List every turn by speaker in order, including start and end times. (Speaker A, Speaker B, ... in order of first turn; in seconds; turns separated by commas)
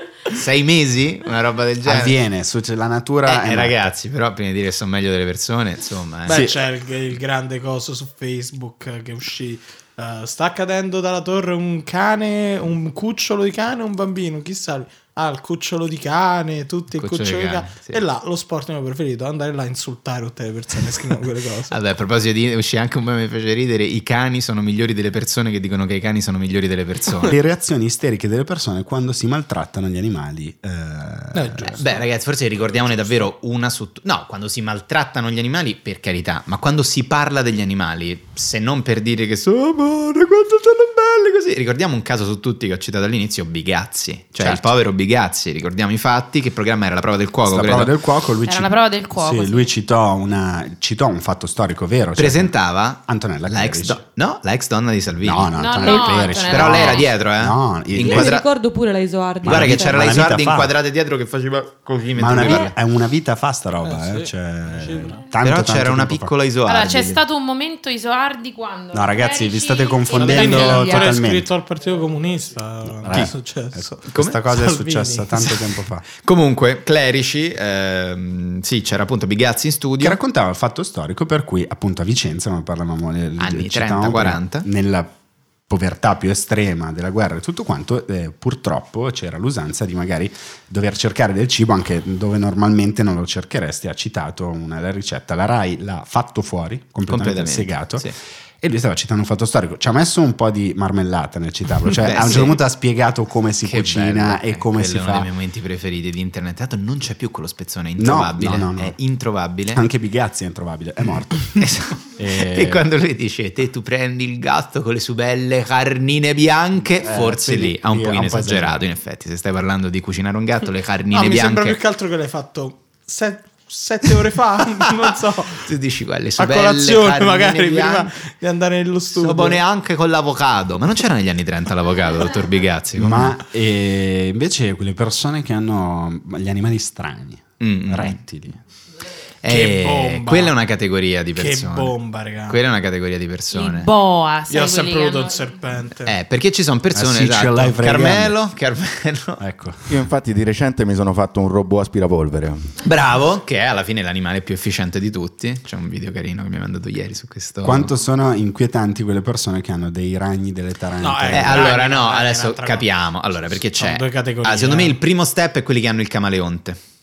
Speaker A: 0.3-2.2, Speaker B: 1.8-3.8, Speaker A: 3.2-6.4, Speaker C: 6.2-21.8, Speaker B: 6.3-6.6, Speaker A: 16.9-18.0, Speaker A: 21.7-27.4, Speaker B: 27.2-31.8, Speaker C: 31.3-32.0, Speaker A: 31.8-47.9, Speaker B: 44.4-44.7, Speaker B: 47.5-54.0, Speaker D: 48.4-49.7, Speaker A: 52.1-58.5, Speaker B: 55.2-58.4, Speaker D: 55.5-57.1, Speaker E: 58.0-60.2, Speaker B: 59.4-60.7, Speaker A: 59.4-62.7, Speaker B: 62.1-66.3, Speaker C: 63.8-65.2, Speaker A: 65.4-67.2, Speaker D: 66.7-71.2, Speaker B: 68.9-71.5, Speaker C: 70.1-75.7, Speaker B: 72.9-76.0, Speaker A: 74.1-74.4, Speaker A: 76.2-80.2, Speaker B: 80.0-85.1, Speaker A: 83.4-84.7, Speaker B: 85.7-105.3, Speaker A: 97.1-98.1, Speaker A: 101.8-102.6, Speaker A: 103.6-109.8, Speaker B: 108.0-109.0, Speaker B: 109.7-112.8, Speaker A: 111.5-121.8, Speaker B: 117.0-118.8, Speaker C: 121.1-125.7, Speaker A: 124.8-128.1, Speaker C: 126.4-129.6, Speaker A: 129.2-133.4, Speaker B: 133.0-138.6, Speaker A: 137.6-138.2, Speaker A: 139.4-141.9, Speaker C: 139.4-140.6, Speaker C: 141.3-142.6, Speaker A: 142.5-143.9, Speaker D: 143.5-145.5, Speaker C: 144.5-146.2, Speaker A: 146.0-149.4, Speaker B: 146.9-148.4, Speaker B: 149.4-149.9, Speaker F: 149.9-152.7, Speaker A: 152.8-157.9, Speaker B: 157.6-161.8, Speaker C: 161.0-162.9, Speaker A: 161.3-166.8, Speaker C: 163.7-165.0